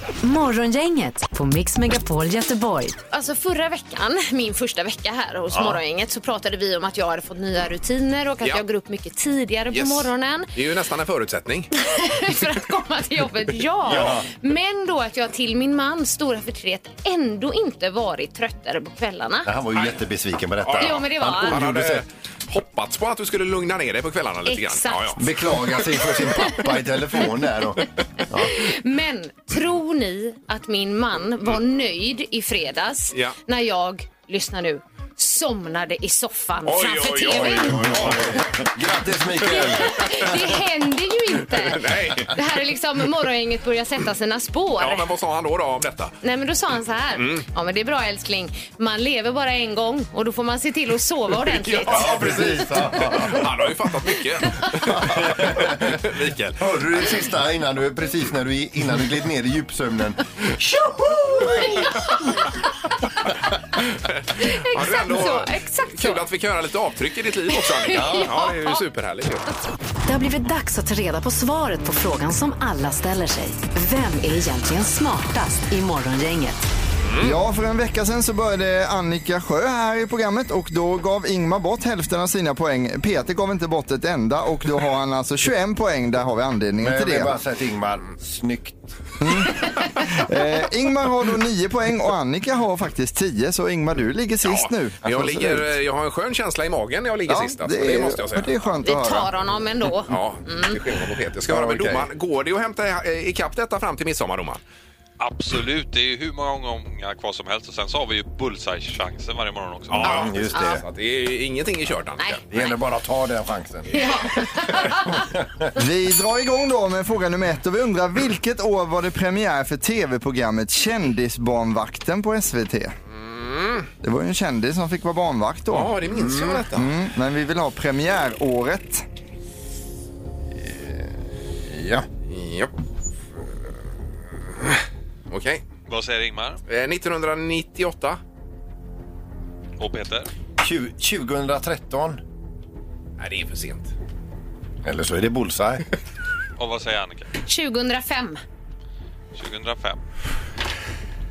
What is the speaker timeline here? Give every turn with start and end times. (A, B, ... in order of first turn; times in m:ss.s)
0:00.2-0:03.0 A
0:03.1-0:10.5 B
0:05.5-0:05.8 C
0:09.7-0:11.7 D
0:11.8-0:19.5 B
0:13.9-0:14.3 C
0:19.4-0:22.0 C
0:20.6-0:25.2 D
0:20.8-0:21.6 B
0:24.4-0:25.2 B
0:25.2-0:28.6 C
0:28.4-0:38.4 B
0:36.6-0:38.6 D
0:37.3-0:40.3 C
0:39.4-0:45.1 B
0:39.6-0:40.3 D
0:41.5-0:42.4 D
0:44.8-0:46.2 D
0:46.2-0:52.6 B
0:47.2-0:47.4 D
0:51.4-0:56.7 D
0:51.9-0:53.5 C
0:54.8-1:01.8 C
1:01.4-1:02.4 B
1:04.0-1:09.5 D
1:04.4-1:06.2 B
1:07.5-1:08.8 B
1:07.9-1:08.3 C
1:10.0-1:16.6 A
1:17.0-1:17.4 D
1:17.2-1:27.3 E
1:26.8-1:28.9 C
1:29.2-1:35.7 E
1:34.4-1:38.5 D
1:37.3-1:39.3 E
1:38.8-1:40.8 B
1:40.1-1:44.6 D
1:41.5-1:42.1 C
1:45.2-1:50.3 F
1:49.9-1:50.8 C
1:50.0-1:52.4 D
1:50.2-1:50.8 B
1:52.2-1:52.7 B
1:52.5-1:54.0 C
1:53.9-1:55.2 B
1:55.0-1:55.7 C
1:55.7-2:02.9 E
2:03.1-2:03.9 D
2:04.0-2:06.0 E
2:05.7-2:06.9 D
2:06.0-2:06.7 C
2:06.7-2:09.0 E
2:10.6-2:11.0 C
2:11.6-2:12.1 C
2:12.3-2:12.7 D
2:14.6-2:15.6 D
2:15.9-2:16.6 F
2:16.7-2:18.2 D
2:19.8-2:20.3 F
2:20.6-2:22.2 C
2:23.2-2:23.9 D
2:24.8-2:25.8 C
2:26.6-2:27.3 F
2:27.5-2:28.4 B
2:29.3-2:30.0 F